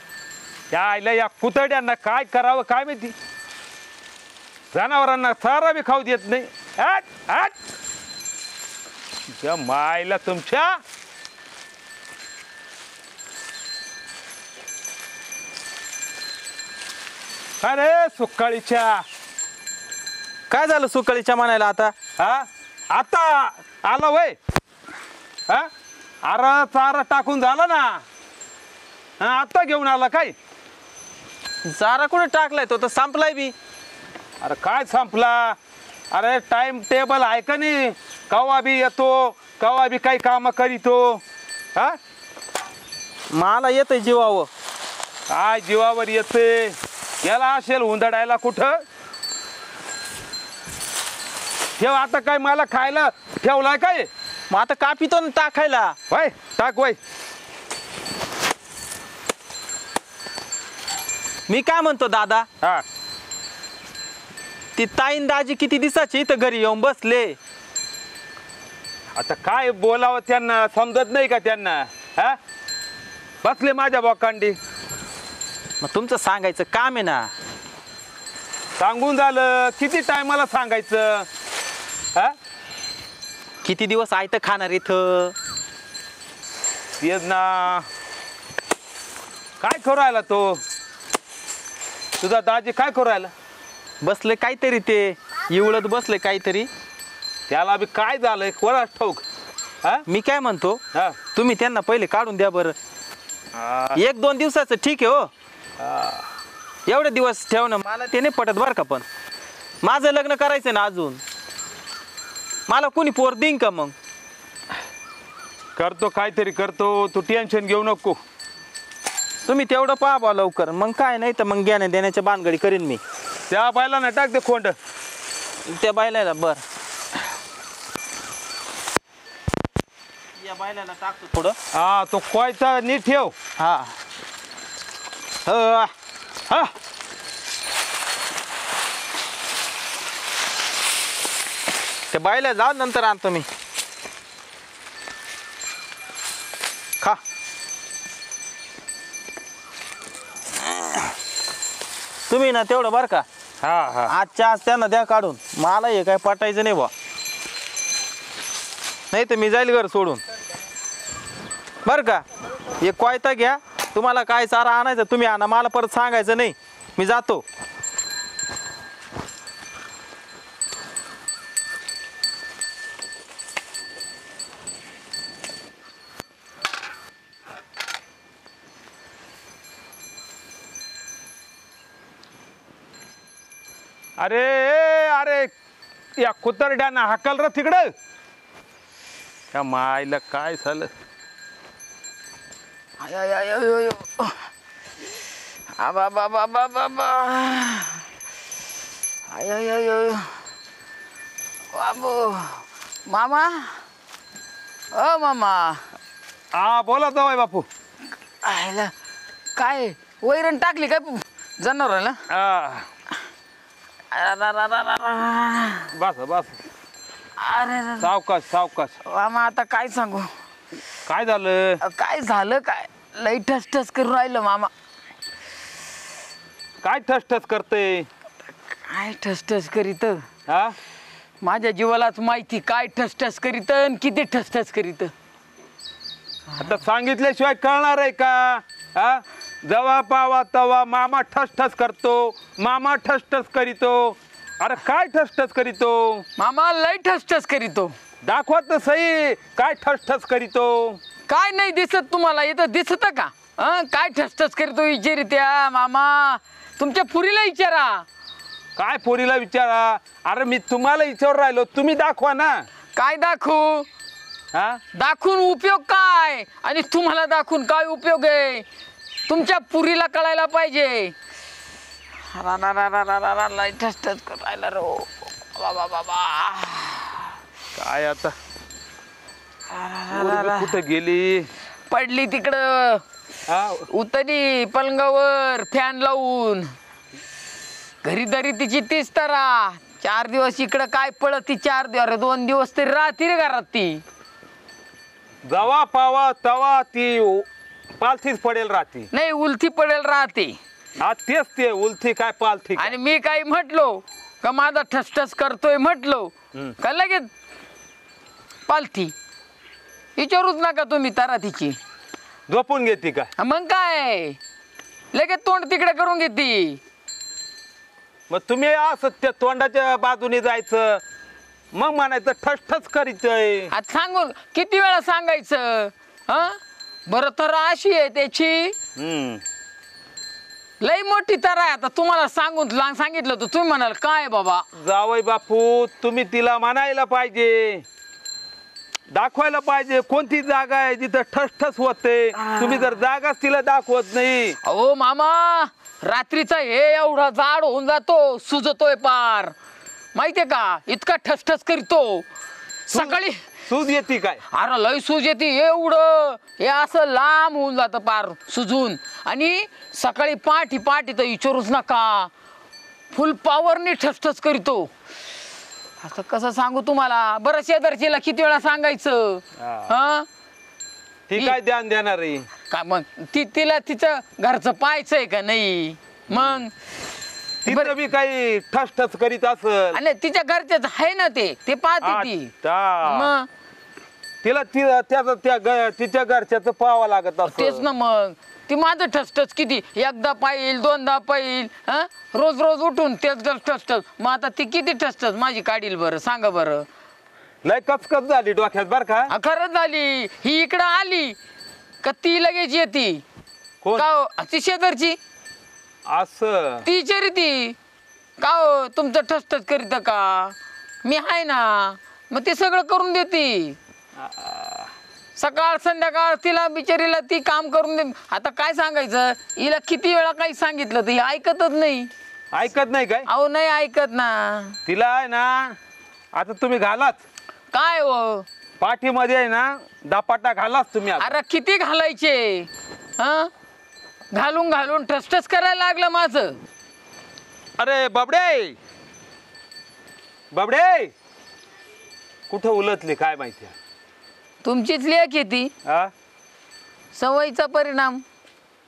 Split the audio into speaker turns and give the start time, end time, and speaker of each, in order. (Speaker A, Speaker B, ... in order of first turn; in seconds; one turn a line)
Speaker A: 0.7-3.1
Speaker A: 4.7-7.5
Speaker A: 9.4-10.8
Speaker A: 17.6-19.0
Speaker B: 20.5-21.9
Speaker A: 22.2-24.4
Speaker A: 26.2-28.0
Speaker A: 29.2-30.3
Speaker B: 31.6-33.5
Speaker A: 34.4-35.6
Speaker A: 36.1-41.2
Speaker B: 43.3-44.5
Speaker A: 45.3-48.8
Speaker A: 51.8-54.1
Speaker B: 54.5-56.0
Speaker A: 56.1-57.0
Speaker B: 61.5-62.5
Speaker B: 64.8-67.4
Speaker A: 69.2-72.4
Speaker A: 73.4-74.6
Speaker B: 75.8-77.3
Speaker A: 78.8-81.3
Speaker B: 83.6-85.3
Speaker A: 87.0-87.8
Speaker A: 89.6-90.6
Speaker A: 92.2-93.3
Speaker B: 94.0-96.7
Speaker A: 97.5-99.2
Speaker B: 100.0-100.8
Speaker B: 101.3-102.7
Speaker A: 103.5-104.0
Speaker B: 103.9-105.3
Speaker A: 105.8-106.2
Speaker B: 106.9-109.0
Speaker B: 109.8-111.2
Speaker B: 112.7-113.9
Speaker A: 115.8-118.2
Speaker B: 119.5-123.0
Speaker A: 123.5-124.7
Speaker B: 125.7-126.6
Speaker B: 130.4-131.6
Speaker A: 131.7-133.3
Speaker B: 133.6-133.9
Speaker B: 135.4-135.9
Speaker B: 142.1-143.5
Speaker B: 152.3-153.2
Speaker A: 153.6-154.1
Speaker B: 154.1-156.9
Speaker B: 159.1-160.2
Speaker B: 161.8-162.2
Speaker B: 162.8-167.4
Speaker A: 184.2-185.5
Speaker A: 186.2-187.9
Speaker A: 189.5-190.9
Speaker C: 193.0-194.4
Speaker C: 195.8-198.0
Speaker C: 199.3-200.3
Speaker C: 201.7-203.8
Speaker C: 204.9-205.8
Speaker A: 206.5-207.7
Speaker C: 208.4-208.9
Speaker C: 209.6-212.2
Speaker A: 212.3-212.9
Speaker C: 214.1-215.9
Speaker A: 215.9-216.6
Speaker C: 217.4-218.1
Speaker A: 218.0-218.9
Speaker C: 219.0-220.3
Speaker A: 221.1-221.8
Speaker C: 221.8-224.7
Speaker A: 226.8-228.1
Speaker C: 228.7-230.2
Speaker A: 230.5-230.8
Speaker C: 231.4-235.1
Speaker A: 236.6-246.2
Speaker C: 246.4-247.9
Speaker A: 248.2-251.0
Speaker C: 251.3-258.1
Speaker A: 258.8-262.7
Speaker C: 262.9-263.9
Speaker A: 264.5-264.8
Speaker C: 264.9-268.6
Speaker C: 269.3-271.1
Speaker C: 272.3-277.2
Speaker A: 277.7-278.3
Speaker C: 279.7-280.7
Speaker A: 280.1-281.5
Speaker C: 281.9-283.0
Speaker A: 283.5-283.9
Speaker C: 283.9-286.7
Speaker C: 288.0-294.0
Speaker A: 295.4-297.4
Speaker A: 298.0-299.1
Speaker C: 299.1-300.6
Speaker A: 301.0-302.9
Speaker C: 302.8-307.3
Speaker C: 308.7-309.1
Speaker C: 310.1-311.8
Speaker A: 312.5-313.3
Speaker C: 313.4-314.4
Speaker C: 315.1-316.8
Speaker A: 318.3-321.0
Speaker A: 321.7-323.7
Speaker C: 323.7-328.8
Speaker A: 329.0-329.4
Speaker C: 330.8-334.6
Speaker A: 334.7-337.8
Speaker A: 339.1-344.6
Speaker C: 342.4-342.9
Speaker C: 344.6-349.5
Speaker C: 350.1-352.3
Speaker C: 352.9-353.4
Speaker A: 352.9-354.4
Speaker C: 354.5-362.3
Speaker C: 363.1-364.9
Speaker C: 366.0-370.3
Speaker A: 369.6-369.9
Speaker A: 371.3-372.5
Speaker C: 371.3-371.6
Speaker C: 372.7-376.7
Speaker A: 376.3-376.6
Speaker A: 377.6-380.0
Speaker C: 377.6-377.9
Speaker C: 379.9-382.5
Speaker A: 382.0-383.3
Speaker C: 383.0-383.5
Speaker A: 384.4-387.8
Speaker C: 387.4-396.9
Speaker A: 397.6-399.3
Speaker C: 399.3-401.4
Speaker C: 402.0-403.2
Speaker A: 403.8-404.1
Speaker C: 403.9-405.2
Speaker A: 406.1-406.8
Speaker C: 406.8-407.8
Speaker C: 408.4-413.8
Speaker A: 414.2-414.9
Speaker C: 415.4-422.1
Speaker A: 422.5-423.3
Speaker C: 423.3-424.8
Speaker A: 424.9-425.8
Speaker A: 426.3-427.2
Speaker C: 427.7-428.4
Speaker A: 428.8-431.4
Speaker C: 431.2-433.5
Speaker C: 434.3-436.6
Speaker A: 437.8-438.8
Speaker A: 440.5-441.1
Speaker A: 442.5-443.7
Speaker C: 444.6-445.7
Speaker A: 445.8-446.1
Speaker C: 447.1-448.2